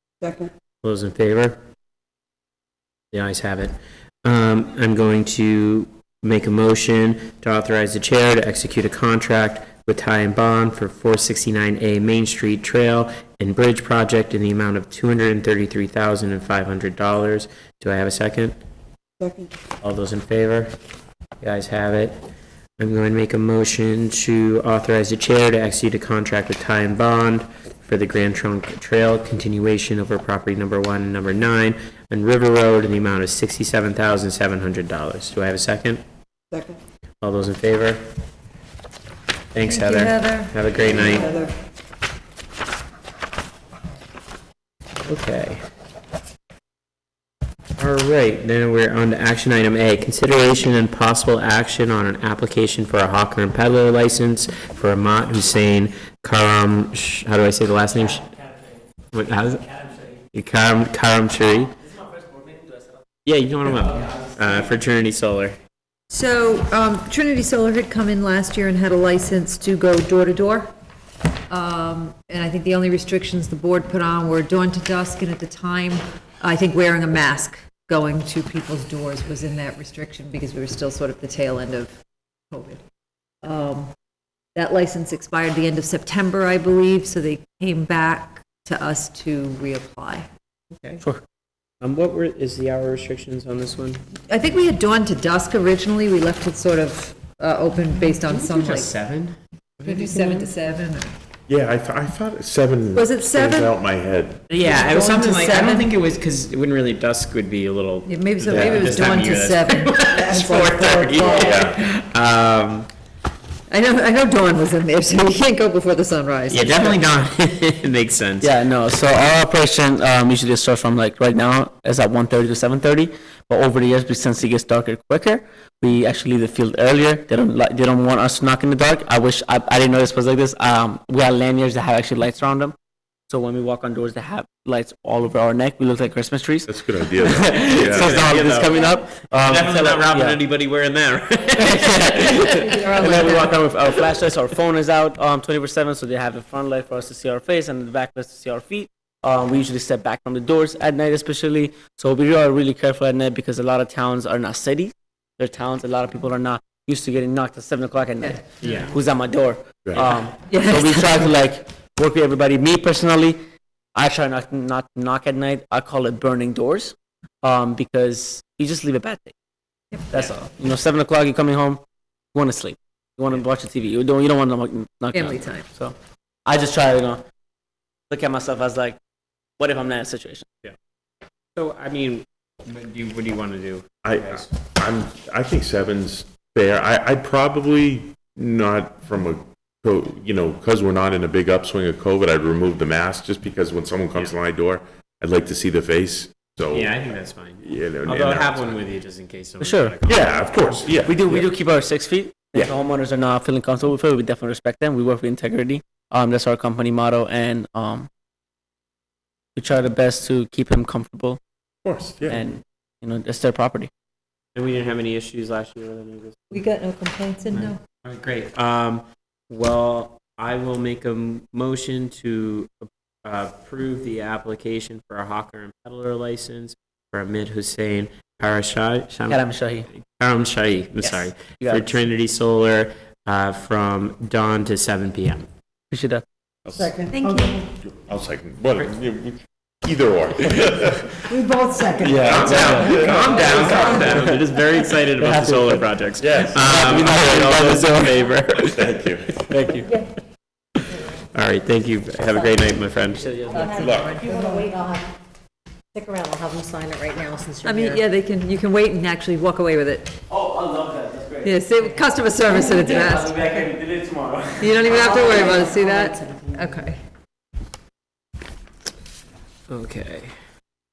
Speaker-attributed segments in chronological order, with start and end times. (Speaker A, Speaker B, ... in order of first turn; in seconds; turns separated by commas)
Speaker A: 0.2-0.5, Speaker B: 0.8-1.6, Speaker B: 3.1-18.6, Speaker A: 19.2-19.5, Speaker B: 19.8-20.7, Speaker B: 21.4-22.2, Speaker B: 22.8-36.0, Speaker A: 36.5-36.8, Speaker B: 37.2-38.0, Speaker B: 39.5-41.3, Speaker C: 39.7-41.5, Speaker A: 40.9-41.5, Speaker B: 45.0-45.6, Speaker B: 47.8-58.2, Speaker D: 58.2-58.7, Speaker B: 59.1-59.6, Speaker D: 59.7-60.1, Speaker B: 60.3-61.7, Speaker D: 61.8-63.0, Speaker B: 63.2-65.6, Speaker D: 63.7-64.3, Speaker C: 66.1-70.7, Speaker C: 71.5-82.0, Speaker C: 82.5-82.8, Speaker C: 83.4-83.9, Speaker C: 84.5-90.3, Speaker B: 90.7-91.0, Speaker B: 91.8-94.0, Speaker C: 94.3-98.9, Speaker B: 98.2-100.5, Speaker C: 99.8-101.1, Speaker E: 101.5-104.5, Speaker C: 103.0-103.7, Speaker B: 104.5-112.9, Speaker C: 104.7-105.9, Speaker C: 108.1-111.4, Speaker E: 108.5-108.9, Speaker A: 110.8-111.5, Speaker E: 111.3-111.8, Speaker C: 113.7-117.0, Speaker B: 116.5-118.5, Speaker D: 118.4-132.8, Speaker D: 133.3-140.4, Speaker E: 136.7-138.2, Speaker B: 137.8-143.5, Speaker D: 141.6-163.4, Speaker C: 142.6-143.5, Speaker B: 158.6-158.9, Speaker E: 159.8-160.2, Speaker C: 160.5-161.3, Speaker D: 163.9-169.3, Speaker D: 170.1-171.8, Speaker D: 172.3-175.9, Speaker C: 175.1-175.7, Speaker D: 176.5-177.2, Speaker D: 178.1-179.0, Speaker D: 179.6-180.5, Speaker B: 181.6-184.5, Speaker E: 184.0-197.1, Speaker B: 196.7-201.4, Speaker E: 197.6-198.8, Speaker D: 199.6-200.0, Speaker E: 200.1-201.2, Speaker D: 201.1-208.1, Speaker D: 209.6-211.4, Speaker E: 211.8-212.4, Speaker D: 212.3-213.9, Speaker B: 214.6-216.5, Speaker C: 216.5-217.8, Speaker B: 217.5-229.4, Speaker D: 229.3-229.9, Speaker B: 229.9-235.5, Speaker D: 231.0-232.0, Speaker D: 235.9-236.2, Speaker E: 236.7-237.0, Speaker A: 236.8-237.6, Speaker C: 237.1-237.6, Speaker E: 237.8-241.4, Speaker A: 241.3-242.3, Speaker E: 242.0-244.4, Speaker D: 242.0-244.3, Speaker B: 242.2-249.9, Speaker D: 245.2-245.8, Speaker E: 246.2-249.3, Speaker D: 246.7-248.1, Speaker B: 251.3-253.6, Speaker D: 253.2-253.8, Speaker C: 253.5-254.6, Speaker F: 253.5-255.1, Speaker E: 253.8-254.2, Speaker F: 255.9-258.0, Speaker C: 257.6-260.2, Speaker D: 260.3-265.8, Speaker C: 261.4-263.5, Speaker C: 264.6-267.0, Speaker F: 265.0-266.2, Speaker B: 269.7-270.3